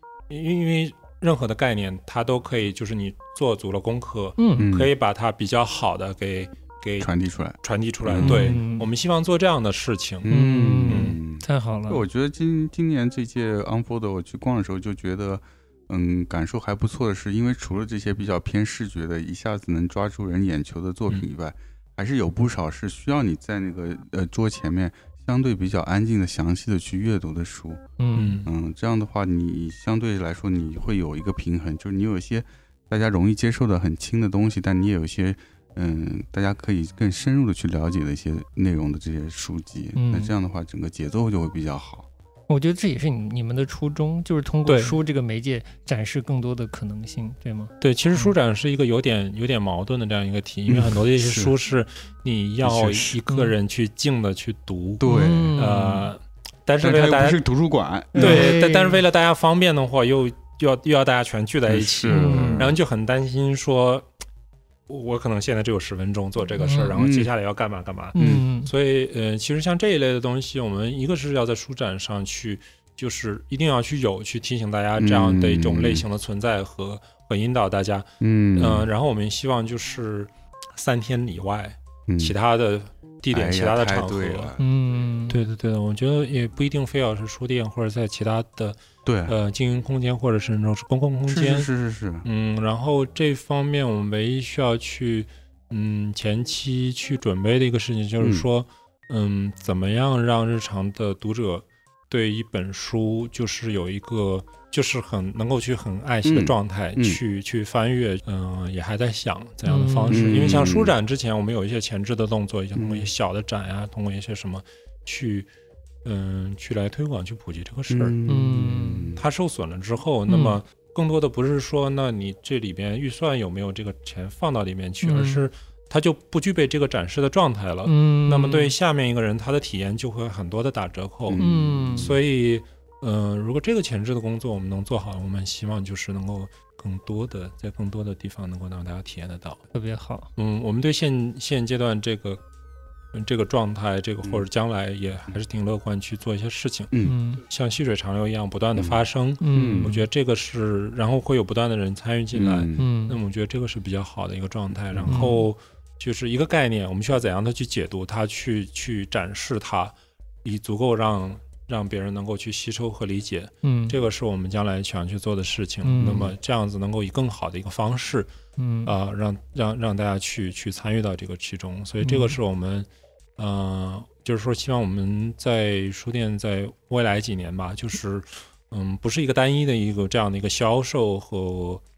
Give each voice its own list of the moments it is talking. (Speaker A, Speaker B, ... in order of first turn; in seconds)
Speaker A: 0.3-10.3, 10.9-11.2, 28.1-28.5, 44.7-45.0, 47.8-55.0, 55.5-57.4, 58.1-64.1, 64.9-84.5, 85.3-91.7, 92.2-115.5, 116.0-118.1, 119.2-139.6, 140.4-142.4, 143.1-168.3, 168.8-181.8
Speaker B: 4.4-4.7, 8.2-8.9, 10.3-12.0, 28.0-28.4, 39.9-40.3, 42.5-48.3, 53.2-53.5, 55.0-56.0, 58.1-59.0, 62.1-62.7, 66.6-66.9, 68.1-68.7, 84.6-85.4, 109.7-110.3, 118.3-119.2, 120.3-120.6, 125.0-125.4, 127.8-128.7, 131.4-132.1, 139.7-140.3, 147.0-147.4, 149.4-150.1, 152.8-153.2, 155.1-155.4, 163.6-163.9, 165.8-166.3, 168.6-168.9, 172.0-172.4
Speaker C: 4.6-4.9, 7.0-8.6, 10.2-27.8, 28.4-42.1, 50.7-51.5, 52.6-53.2, 55.0-56.1, 56.8-58.6, 61.7-62.8, 66.9-67.3, 68.2-68.4, 75.0-76.0, 78.2-78.9, 82.1-82.3, 83.3-84.7, 89.0-89.3, 91.3-92.3, 98.2-98.5, 106.2-107.2, 110.1-110.9, 112.7-113.1, 117.9-119.2, 131.3-132.2, 148.8-149.0, 149.5-150.0, 152.3-152.8, 154.9-155.3